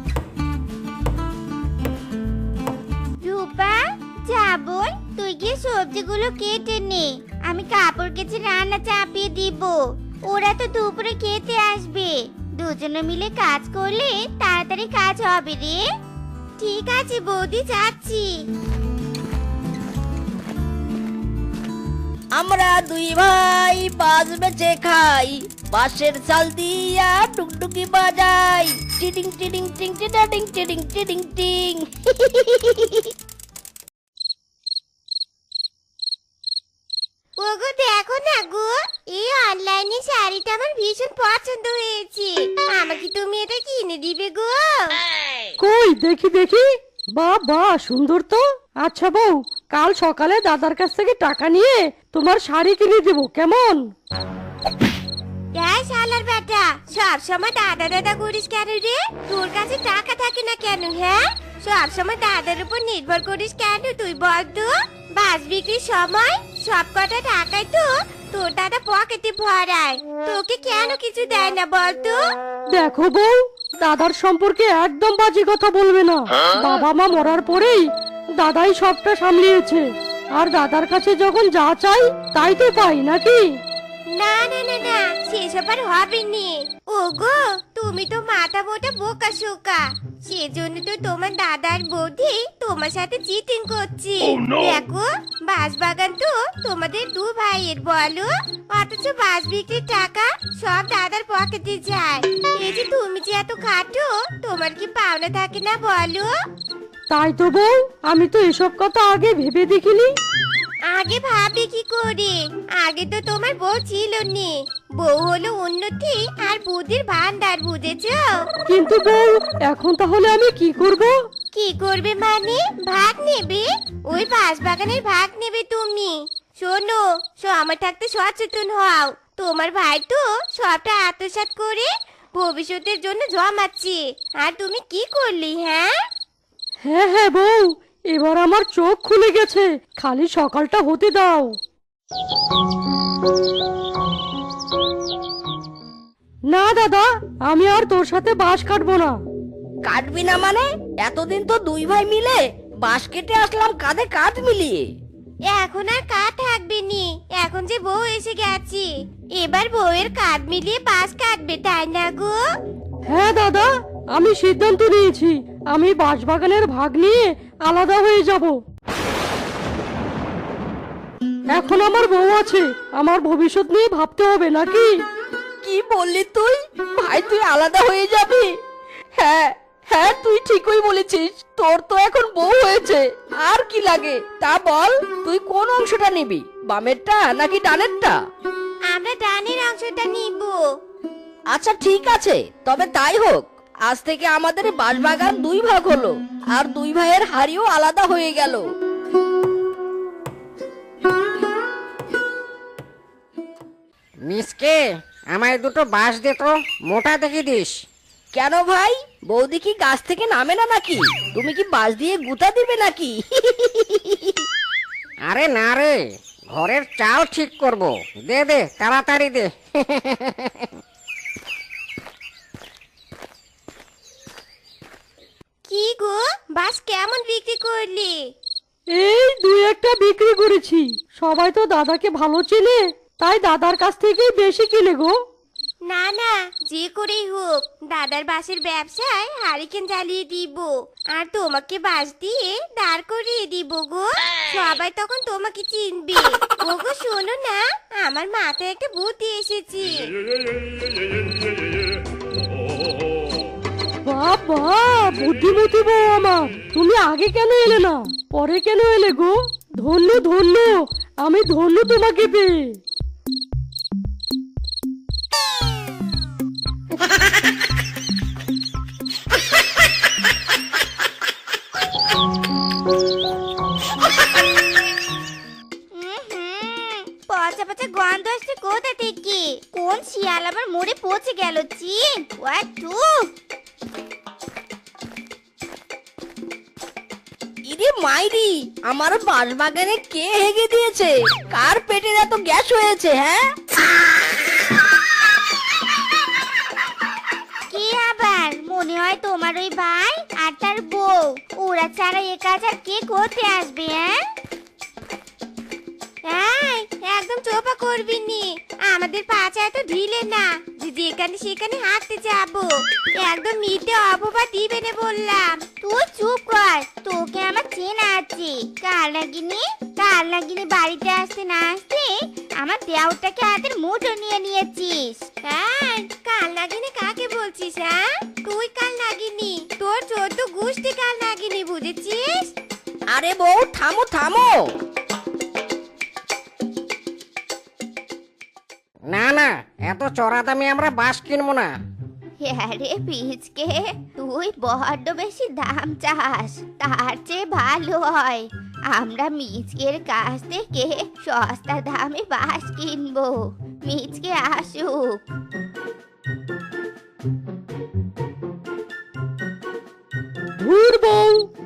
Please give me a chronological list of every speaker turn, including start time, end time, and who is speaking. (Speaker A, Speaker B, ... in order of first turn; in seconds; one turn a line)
Speaker A: 3.2-9.8
Speaker A: 10.3-15.8
Speaker A: 16.6-18.3
Speaker B: 22.4-33.1
Speaker A: 37.4-44.9
Speaker C: 45.6-46.6
Speaker C: 47.2-53.8
Speaker A: 55.5-72.2
Speaker C: 72.7-77.8
Speaker C: 78.4-79.8
Speaker C: 80.4-83.5
Speaker A: 84.1-106.3
Speaker C: 107.1-110.1
Speaker A: 110.9-118.4
Speaker C: 118.7-121.1
Speaker A: 121.5-135.9
Speaker C: 136.8-141.6
Speaker C: 146.5-149.1
Speaker B: 149.8-154.8
Speaker A: 155.5-162.4
Speaker C: 163.1-168.5
Speaker C: 171.5-174.9
Speaker B: 175.6-178.5
Speaker B: 179.2-188.2
Speaker A: 188.9-190.6
Speaker B: 191.5-198.6
Speaker D: 204.3-207.7
Speaker B: 208.3-214.4
Speaker D: 215.3-216.0
Speaker D: 216.6-220.7
Speaker A: 225.7-228.1
Speaker C: 229.0-235.1
Speaker A: 235.9-249.9
Speaker C: 254.1-262.8
Speaker A: 275.9-283.2
Speaker B: 287.7-293.4
Speaker A: 297.7-304.1
Speaker A: 306.2-322.1
Speaker A: 322.6-332.5
Speaker B: 333.1-334.6
Speaker D: 339.1-341.7
Speaker A: 342.4-355.2
Speaker C: 360.6-361.3